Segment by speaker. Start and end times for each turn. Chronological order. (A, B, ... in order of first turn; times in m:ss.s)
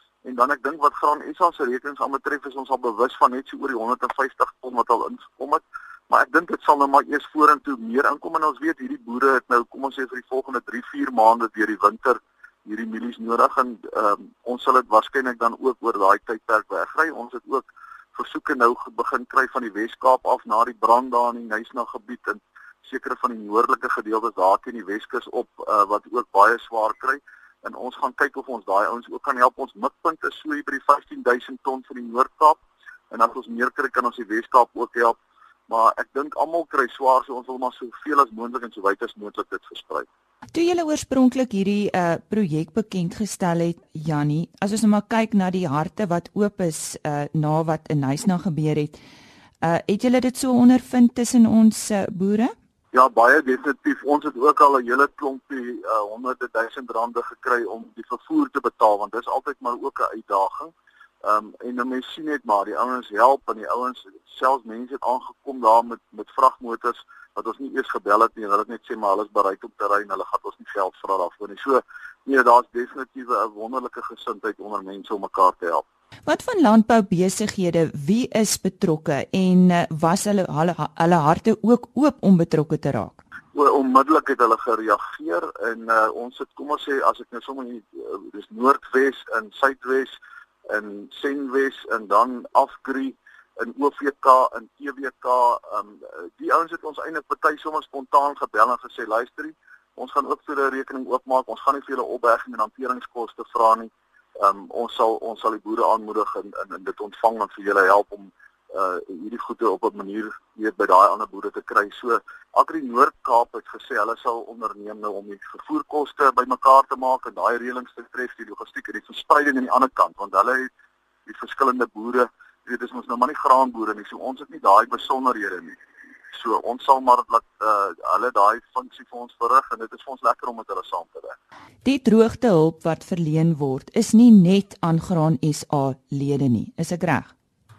0:00.2-0:32.6 A
0:33.1-0:35.2 A
0:35.7-0:40.1 A
0:40.5-0:49.0 B
0:49.6-0:52.5 B
0:52.9-1:00.7 A
1:01.2-1:15.8 A
1:16.3-1:23.2 B
1:23.5-1:30.2 A
1:30.7-2:00.7 A
2:01.2-2:05.8 A
2:06.3-2:11.4 A
2:11.8-2:17.3 B